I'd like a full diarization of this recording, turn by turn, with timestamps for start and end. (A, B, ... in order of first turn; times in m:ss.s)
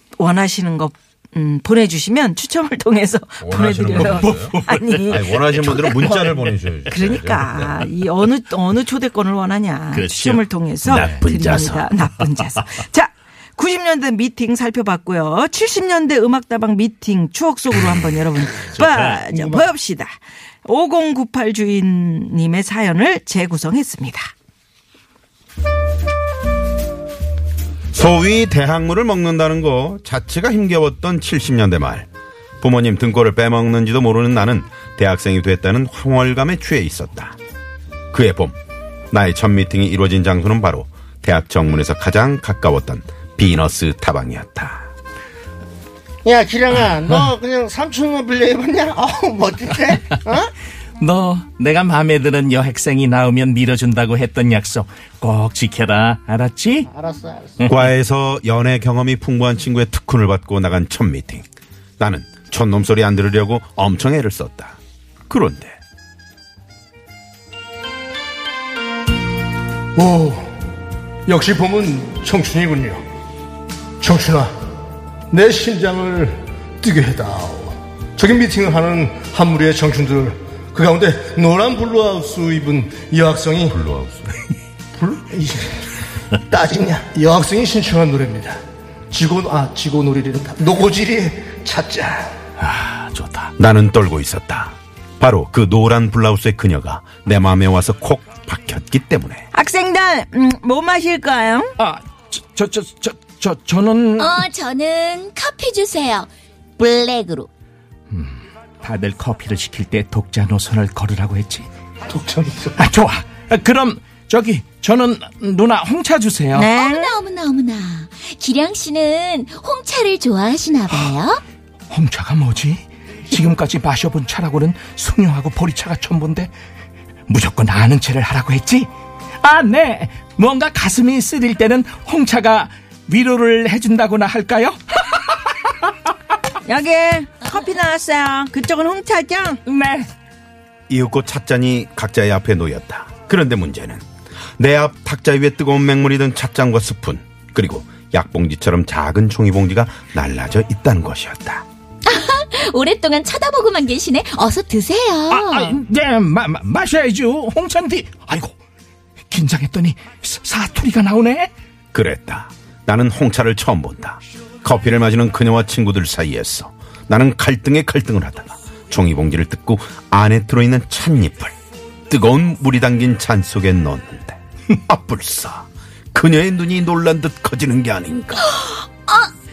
0:00.2-0:06.3 A
0:03.4-0:04.6 B
0:03.9-0:06.6 C
0:05.1-0:07.9 B
0:06.9-0:24.3 A
0:09.9-0:11.7 C
0:10.8-0:11.9 B
0:18.6-0:19.2 C
0:19.3-0:19.6 D
0:27.9-0:32.1 B
0:32.6-0:37.4 B
0:38.1-0:38.6 B
0:39.1-0:44.9 B
0:46.2-0:50.5 D
0:51.0-0:56.9 C
0:56.9-0:57.6 D
0:57.6-1:01.4 B
1:02.0-1:04.8 B
1:05.3-1:05.8 B
1:10.0-1:10.6 D
1:11.3-1:13.0 D
1:14.0-1:14.5 D
1:15.3-1:23.8 D
1:23.7-1:24.4 B
1:25.0-1:32.3 D
1:32.6-1:33.5 C
1:33.6-1:39.4 B
1:39.5-1:41.7 A
1:41.8-1:44.4 C
1:44.2-1:47.5 E
1:48.1-1:51.7 C
1:52.1-1:52.8 D
1:52.8-1:56.7 C
1:56.5-1:57.2 A
1:56.6-2:01.4 E
2:01.9-2:06.5 C
2:07.3-2:08.9 C
2:09.4-2:15.7 C
2:16.6-2:19.6 A
2:19.6-2:20.1 C
2:20.9-2:24.0 B
2:24.6-2:31.6 B
2:32.0-2:35.8 E
2:35.3-2:38.5 C
2:39.3-2:41.5 C
2:41.9-2:51.5 B
2:52.1-2:58.4 B
2:58.4-2:59.3 E